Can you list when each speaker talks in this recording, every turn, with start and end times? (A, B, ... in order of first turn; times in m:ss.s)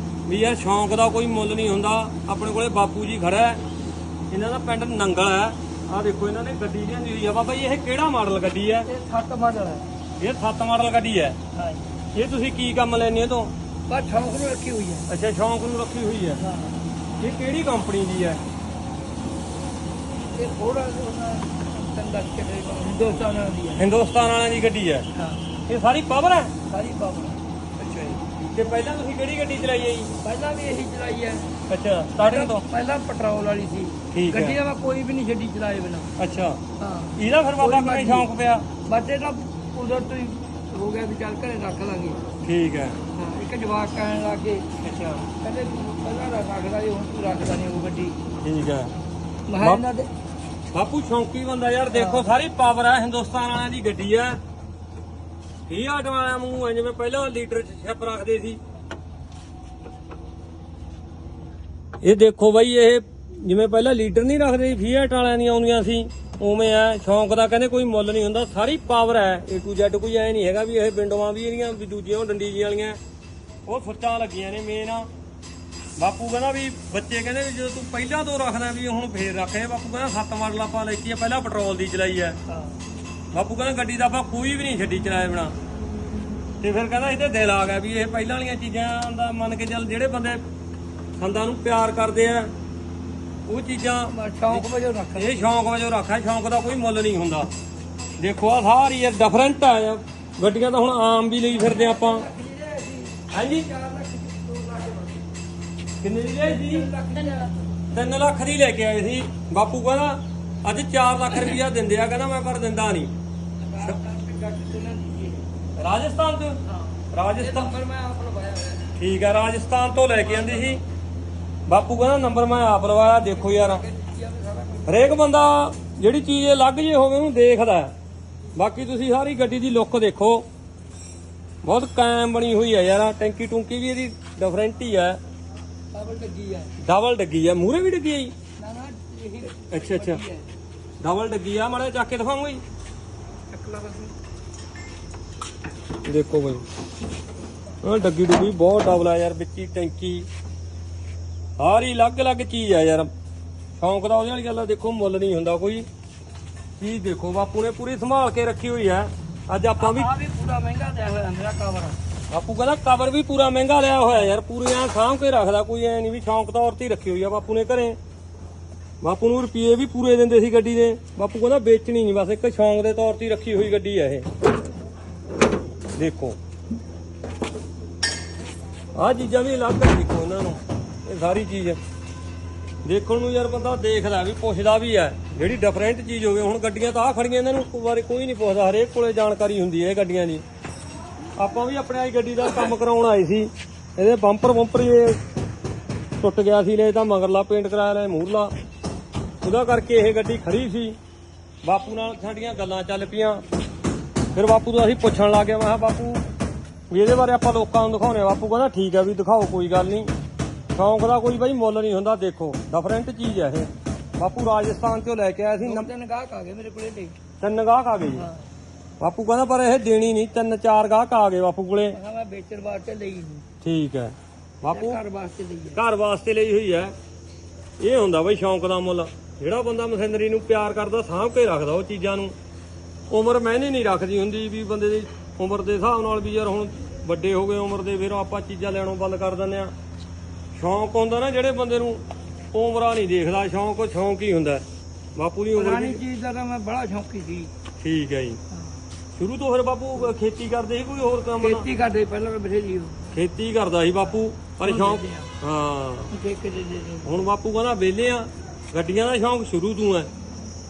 0:00.3-0:03.6 A
0:04.3-0:08.9 A
0:08.8-0:09.9 B
0:10.2-0:11.4 A
0:11.6-0:11.9 B
0:12.1-0:13.5 A
0:13.9-0:15.1 B
0:15.1-0:16.4 A
0:16.4-0:16.8 B
0:17.2-0:18.4 A
0:20.3-0:23.8 B
0:23.8-0:25.1 A
0:25.2-0:25.4 B
0:25.7-0:26.5 A
0:26.7-0:27.4 B
0:27.8-0:30.1 A
0:30.2-0:31.6 B
0:31.7-0:32.6 A
0:32.2-0:36.1 B
0:34.1-0:34.6 A
0:36.2-0:36.6 A
0:36.8-0:38.3 B
0:37.2-0:38.7 A
0:38.9-0:42.2 B
0:42.4-0:43.0 A
0:43.2-0:44.7 B
0:44.8-0:45.2 A
0:45.4-0:48.2 B
0:48.4-0:48.9 A
0:49.5-0:50.1 B
0:50.7-0:54.4 A
0:51.9-0:52.3 B
0:55.7-0:58.6 A
1:02.0-1:13.0 A
1:13.7-1:15.1 A
1:16.0-1:22.4 A
1:22.5-1:22.8 B
1:23.3-1:25.5 A
1:26.6-1:30.4 A
1:31.2-1:32.5 A
1:33.5-1:37.5 A
1:34.1-1:35.5 B
1:38.2-1:42.3 A
1:41.5-1:45.3 B
1:43.3-1:43.7 A
1:46.0-1:46.9 A
1:46.4-1:47.7 B
1:47.9-1:53.1 A
1:53.6-1:55.4 B
1:55.8-1:56.6 A
1:56.7-1:58.9 B
1:57.1-1:57.7 A
1:59.0-2:00.8 A
2:00.2-2:00.8 B
2:01.7-2:03.8 A
2:03.2-2:05.2 B
2:04.9-2:07.9 A
2:08.6-2:10.5 A
2:11.6-2:15.2 A
2:15.9-2:16.7 B
2:16.8-2:18.3 A
2:18.6-2:20.5 B
2:19.7-2:20.2 A
2:21.0-2:22.6 A
2:23.5-2:24.1 B
2:26.1-2:26.6 A
2:27.8-2:30.3 A
2:31.6-2:33.1 A
2:33.8-2:35.9 A
2:36.8-2:40.1 A
2:39.8-2:42.0 B
2:42.3-2:48.0 A
2:49.0-2:54.3 A
2:56.0-2:56.4 A
2:59.0-3:01.8 A
3:02.8-3:10.4 A
3:11.4-3:15.2 A
3:16.2-3:18.5 A
3:19.4-3:21.0 A
3:21.6-3:23.4 A
3:24.3-3:26.2 A
3:26.9-3:30.1 A
3:30.7-3:35.9 A
3:35.6-3:37.2 B
3:37.4-3:38.3 A
3:38.1-3:38.5 B
3:39.0-3:42.0 A
3:41.9-3:43.4 B
3:43.6-3:45.0 A
3:44.7-3:45.8 B
3:45.7-3:46.9 A
3:47.8-3:52.4 A
3:53.1-3:59.7 A
4:00.6-4:02.0 A
4:02.5-4:04.6 A
4:05.2-4:06.0 A
4:05.5-4:07.5 B
4:07.8-4:08.4 A
4:08.5-4:08.8 B
4:09.2-4:11.7 A
4:11.4-4:13.2 B
4:13.1-4:16.1 A
4:14.6-4:15.3 B
4:16.1-4:17.2 B
4:17.0-4:20.1 A